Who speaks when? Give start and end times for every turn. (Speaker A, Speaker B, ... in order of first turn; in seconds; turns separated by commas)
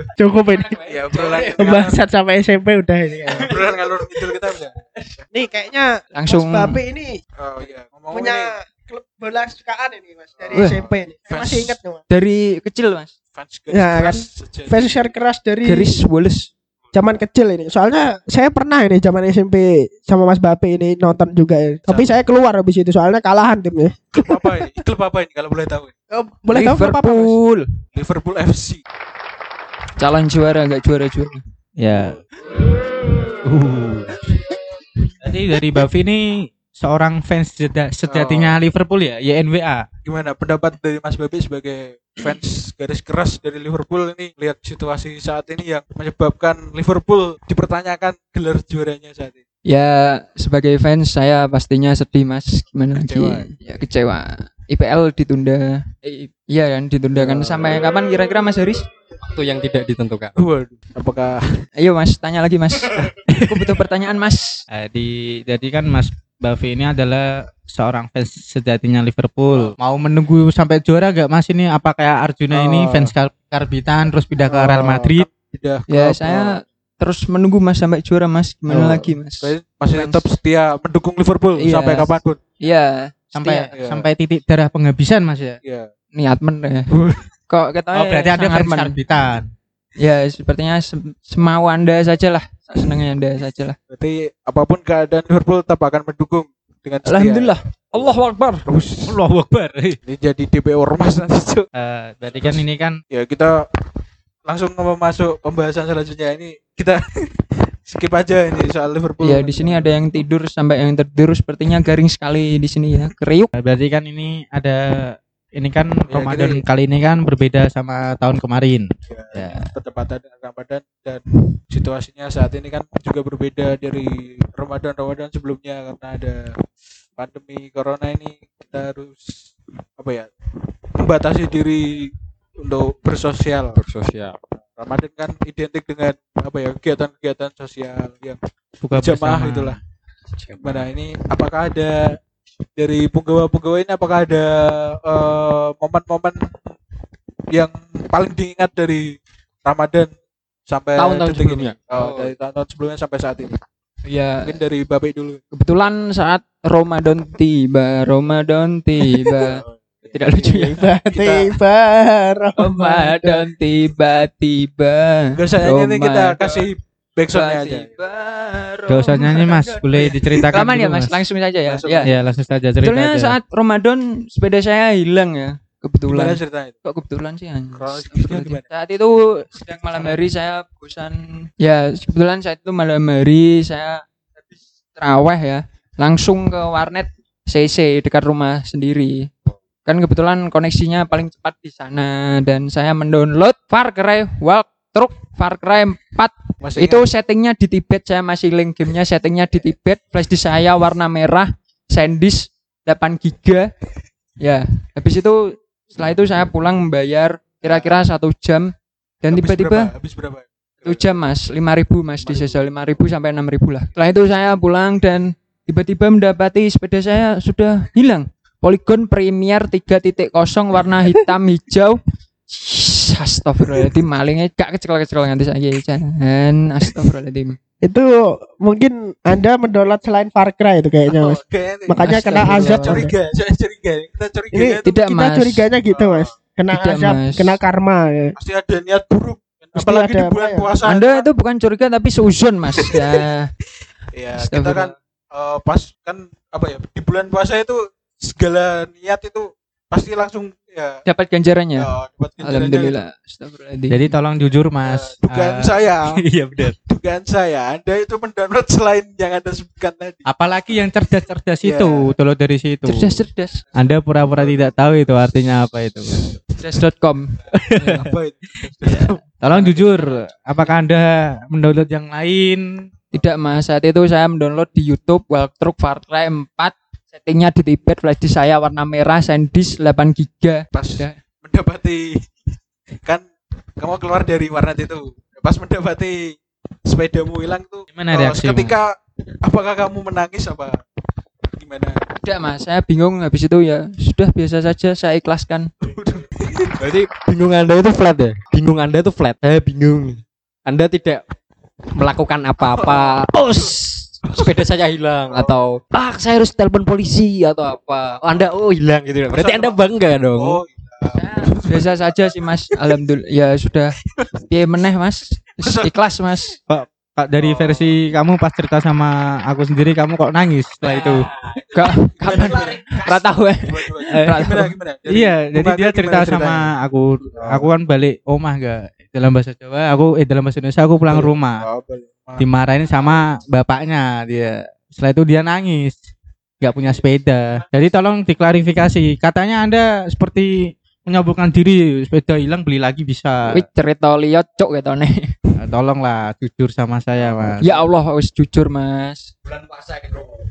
Speaker A: 0.1-0.9, Speaker B: 0.8-2.0, Speaker A: 1.5-3.7, Speaker B: 3.4-4.7, Speaker A: 5.3-7.1, Speaker C: 6.1-6.8, Speaker B: 7.4-8.5, Speaker A: 8.1-12.0, Speaker B: 10.4-11.7, Speaker C: 10.5-10.8, Speaker C: 12.1-13.1, Speaker B: 13.3-15.1, Speaker A: 13.7-16.0, Speaker C: 15.6-16.5, Speaker A: 16.9-24.7, Speaker B: 21.9-22.2, Speaker B: 24.1-25.9, Speaker A: 26.1-27.4, Speaker C: 26.5-27.6, Speaker B: 27.9-28.8, Speaker C: 30.0-31.4, Speaker D: 31.8-32.2, Speaker D: 33.4-34.1, Speaker D: 35.2-39.8, Speaker B: 38.1-38.6, Speaker B: 40.0-49.4, Speaker C: 49.7-58.8, Speaker B: 53.0-53.5, Speaker E: 59.2-60.3, Speaker B: 60.4-61.6, Speaker C: 61.8-64.6, Speaker D: 64.7-75.3, Speaker B: 72.5-73.1, Speaker B: 74.5-76.6, Speaker C: 75.9-80.2, Speaker B: 78.8-82.4, Speaker C: 81.6-83.7, Speaker D: 83.3-85.6, Speaker B: 83.8-84.1, Speaker C: 86.2-86.9, Speaker B: 86.9-87.2, Speaker C: 87.5-89.0, Speaker D: 87.9-89.5, Speaker C: 90.0-93.8, Speaker B: 93.9-98.1, Speaker C: 97.0-98.7, Speaker B: 98.6-99.2, Speaker D: 99.1-100.0, Speaker B: 100.0-101.7, Speaker D: 101.8-103.0, Speaker B: 102.4-103.6, Speaker B: 104.5-107.0, Speaker B: 107.8-110.1, Speaker C: 109.2-113.5, Speaker D: 113.6-114.8, Speaker D: 115.6-119.6, Speaker B: 116.1-116.6, Speaker B: 119.1-126.5, Speaker B: 127.2-129.3, Speaker B: 130.0-130.3, Speaker B: 131.0-132.1, Speaker B: 132.6-133.8, Speaker E: 133.7-134.4, Speaker B: 134.8-138.4, Speaker D: 138.8-139.8, Speaker B: 138.9-139.8, Speaker E: 140.4-140.9, Speaker B: 140.6-142.0, Speaker B: 142.8-146.5, Speaker B: 147.5-150.1, Speaker B: 150.7-153.6, Speaker E: 151.0-152.3, Speaker C: 154.1-154.6, Speaker B: 154.4-155.4, Speaker C: 155.5-160.8, Speaker B: 159.6-159.8, Speaker A: 160.3-163.5, Speaker B: 161.1-161.4, Speaker C: 162.6-166.7, Speaker B: 165.3-167.9, Speaker C: 167.3-172.1, Speaker D: 168.9-171.2, Speaker B: 171.7-172.2, Speaker D: 172.0-173.3, Speaker C: 172.8-184.0, Speaker B: 176.1-176.7, Speaker B: 177.7-178.6, Speaker C: 184.9-189.3, Speaker C: 189.8-203.7, Speaker B: 196.6-197.0, Speaker C: 204.4-209.9, Speaker B: 207.6-207.9, Speaker B: 209.3-211.1, Speaker C: 210.8-222.0, Speaker B: 212.2-212.6, Speaker C: 222.5-227.6, Speaker A: 227.8-233.1, Speaker B: 231.1-234.9, Speaker C: 232.0-233.0, Speaker A: 234.5-238.3, Speaker C: 234.8-235.7, Speaker B: 235.9-236.4, Speaker C: 236.7-237.6, Speaker B: 238.4-241.2, Speaker A: 239.8-240.7, Speaker C: 240.8-243.5, Speaker B: 242.8-243.2, Speaker B: 244.1-251.0, Speaker C: 244.3-244.9, Speaker C: 251.1-251.9, Speaker B: 251.8-253.0, Speaker C: 252.4-254.1, Speaker D: 253.9-255.7, Speaker B: 254.8-256.2, Speaker D: 256.2-256.7, Speaker B: 256.9-260.3, Speaker D: 260.3-263.1, Speaker B: 261.6-262.1, Speaker C: 262.9-263.6, Speaker D: 263.8-266.2, Speaker B: 264.3-264.7, Speaker C: 266.6-268.1, Speaker D: 267.7-268.0, Speaker B: 267.8-269.2, Speaker D: 268.8-272.6, Speaker C: 273.1-281.2, Speaker B: 280.7-282.1, Speaker B: 283.8-290.8, Speaker D: 287.9-288.8, Speaker B: 291.5-292.0, Speaker C: 292.2-295.7, Speaker B: 295.8-296.8, Speaker E: 296.8-301.2, Speaker E: 301.9-310.6, Speaker B: 302.6-303.1, Speaker B: 304.2-304.6, Speaker B: 309.3-309.8, Speaker B: 310.3-312.2, Speaker C: 311.1-314.0, Speaker C: 314.5-316.6, Speaker B: 315.6-315.9, Speaker D: 316.7-321.3, Speaker B: 317.4-317.9, Speaker C: 321.7-324.7, Speaker B: 322.1-326.7, Speaker D: 324.1-324.5, Speaker D: 325.1-331.6, Speaker B: 327.3-327.7, Speaker B: 331.1-332.4, Speaker D: 332.4-336.0, Speaker D: 336.6-340.5, Speaker D: 341.1-343.6, Speaker C: 343.5-345.3, Speaker D: 345.6-347.7, Speaker B: 347.2-347.8, Speaker C: 347.6-349.3, Speaker E: 349.6-350.1